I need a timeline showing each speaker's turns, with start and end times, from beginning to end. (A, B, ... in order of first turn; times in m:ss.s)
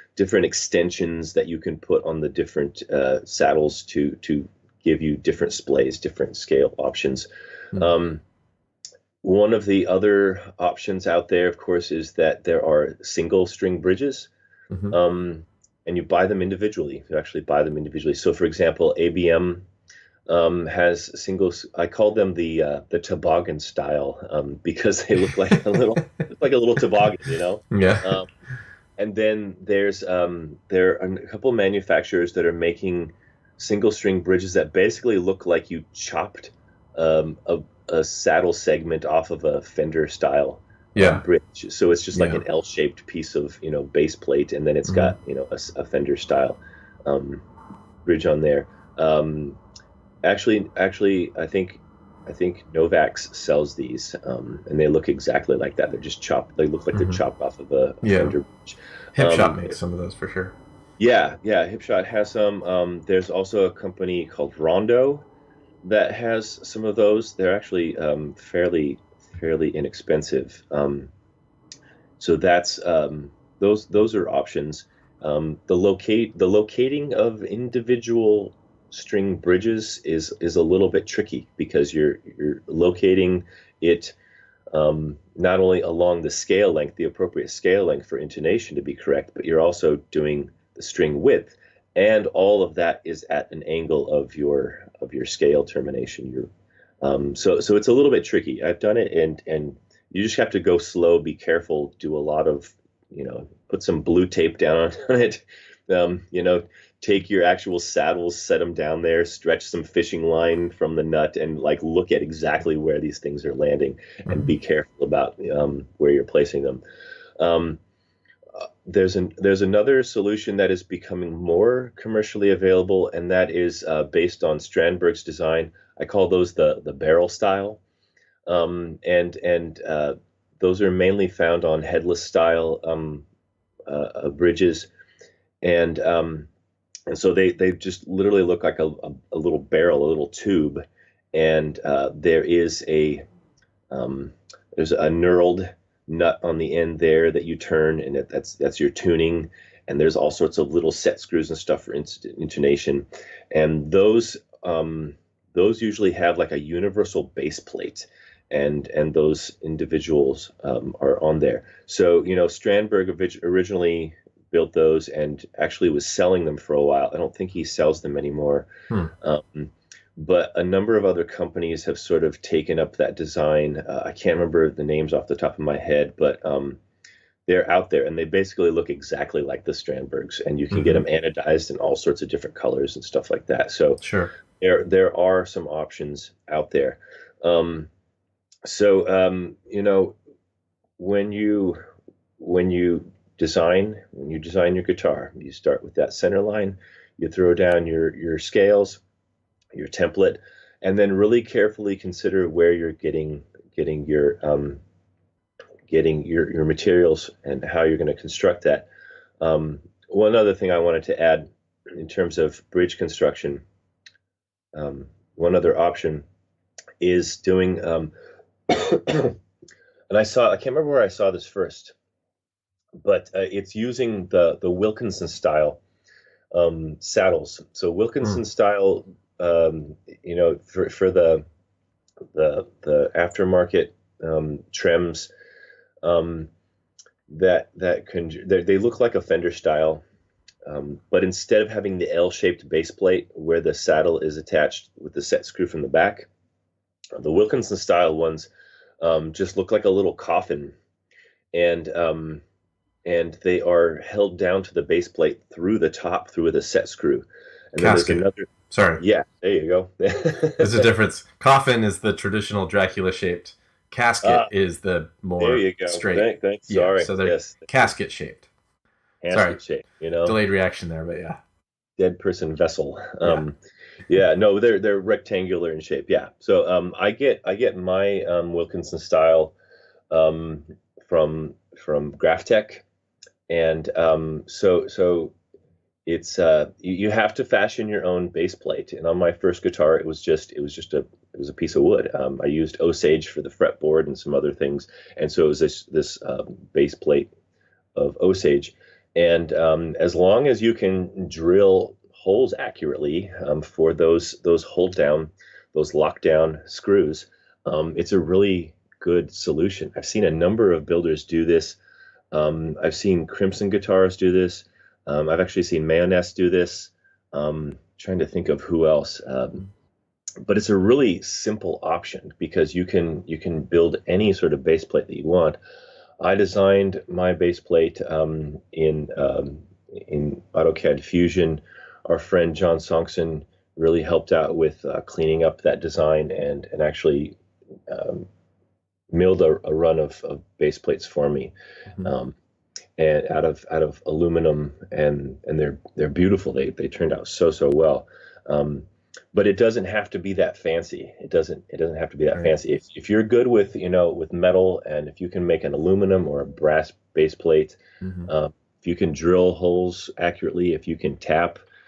0:00.2-0:08.2 A
0:09.2-0:14.3 A
0:14.7-0:15.0 B
0:14.9-0:19.7 A
0:20.3-0:28.3 A
0:27.7-0:28.2 B
0:29.0-0:47.4 A
0:41.0-0:41.2 B
0:42.1-0:42.4 B
0:44.9-0:45.2 B
0:48.0-0:49.6 A
0:50.2-0:59.7 A
0:56.9-0:57.2 B
0:58.0-0:58.4 B
0:59.2-1:00.6 B
1:01.0-1:05.2 A
1:05.8-1:11.1 A
1:12.2-1:24.2 A
1:24.7-1:36.5 A
1:37.0-1:56.8 A
1:57.4-1:57.8 A
1:58.6-2:07.8 A
2:08.5-2:13.2 A
2:13.9-2:14.9 A
2:15.6-2:16.5 A
2:17.1-2:20.8 A
2:21.3-2:23.2 A
2:23.9-2:48.7 A
2:49.2-2:56.8 A
2:57.5-3:04.0 A
3:00.7-3:01.0 B
3:04.0-3:04.3 B
3:04.6-3:07.9 A
3:08.6-3:10.2 A
3:11.0-3:11.8 A
3:12.4-3:19.0 A
3:19.7-3:24.8 A
3:25.9-3:28.9 A
3:29.4-3:33.6 A
3:34.8-3:36.3 A
3:37.0-3:38.1 A
3:38.7-3:39.4 A
3:40.1-3:42.0 A
3:43.0-3:45.8 A
3:46.5-3:51.4 A
3:52.3-3:55.3 A
3:56.0-3:56.5 A
3:57.3-4:00.0 A
4:00.7-4:06.3 A
4:07.2-4:08.5 A
4:09.0-4:10.8 A
4:11.5-4:12.4 A
4:13.0-4:20.9 A
4:17.8-4:19.0 B
4:20.6-4:28.5 B
4:24.2-4:24.5 A
4:25.4-4:27.9 A
4:29.2-4:30.4 A
4:29.3-4:29.6 B
4:30.2-4:31.4 B
4:32.0-4:39.6 A
4:40.1-4:42.8 A
4:43.5-4:45.3 A
4:46.1-4:57.3 A
4:58.0-5:11.8 A
5:12.3-5:19.7 A
5:20.4-5:25.6 A
5:26.2-5:37.4 A
5:37.9-5:38.3 A
5:39.1-5:42.4 A
5:43.0-6:01.6 A
5:58.0-5:58.3 B